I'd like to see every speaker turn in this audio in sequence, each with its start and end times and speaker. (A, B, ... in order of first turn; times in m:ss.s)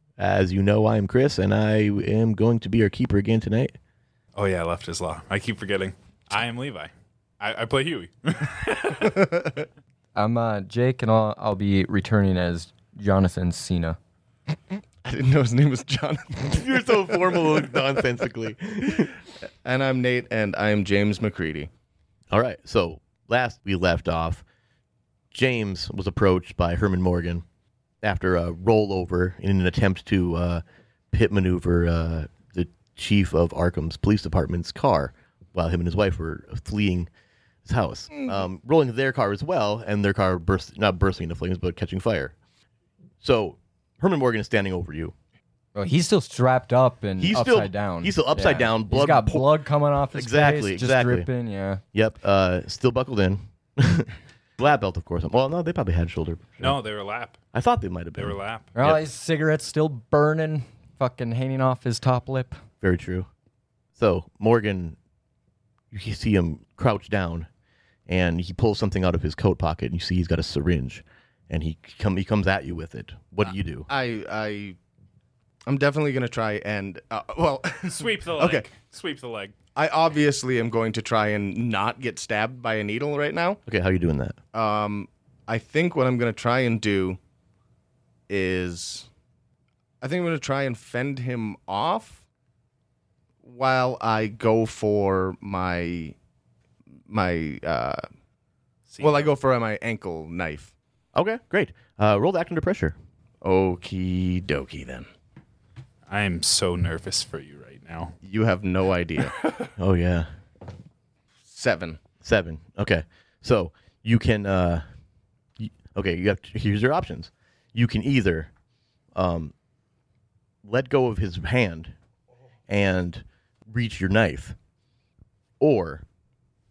0:00.2-0:03.7 A
0:04.4-0:09.1 B
0:09.0-0:09.6 C
0:10.2-0:14.0 D
0:15.0-0:17.8 C
0:16.5-0:19.2 A
0:19.6-0:21.7 C
0:22.3-0:24.4 A
0:25.3-0:27.4 A
0:28.0-0:37.1 A
0:37.6-0:42.3 A
0:43.2-0:45.1 A
0:45.7-0:51.8 D
0:47.2-0:49.5 A
0:50.1-0:51.3 A
0:51.9-0:56.8 A
0:56.6-0:57.4 B
0:57.5-0:59.0 A
0:58.2-0:58.7 B
0:58.7-1:02.6 D
1:02.8-1:03.3 A
1:04.0-1:05.0 A
1:05.9-1:07.5 A
1:08.1-1:13.9 A
1:13.9-1:14.8 C
1:15.7-1:18.6 C
1:17.8-1:19.5 B
1:19.7-1:23.6 C
1:23.6-1:24.4 A
1:24.5-1:27.2 C
1:28.3-1:29.1 C
1:30.0-1:32.2 C
1:33.4-1:36.2 C
1:37.1-1:38.0 C
1:38.9-1:39.3 B
1:39.0-1:40.7 C
1:41.1-1:43.0 A
1:43.4-1:45.1 C
1:46.1-1:48.1 B
1:48.2-1:49.7 C
1:49.8-1:50.3 A
1:51.4-1:52.0 C
1:52.2-1:54.8 A
1:55.6-1:58.5 A
1:59.1-1:59.5 A
2:00.6-2:01.9 A
2:02.7-2:04.6 A
2:05.6-2:06.0 A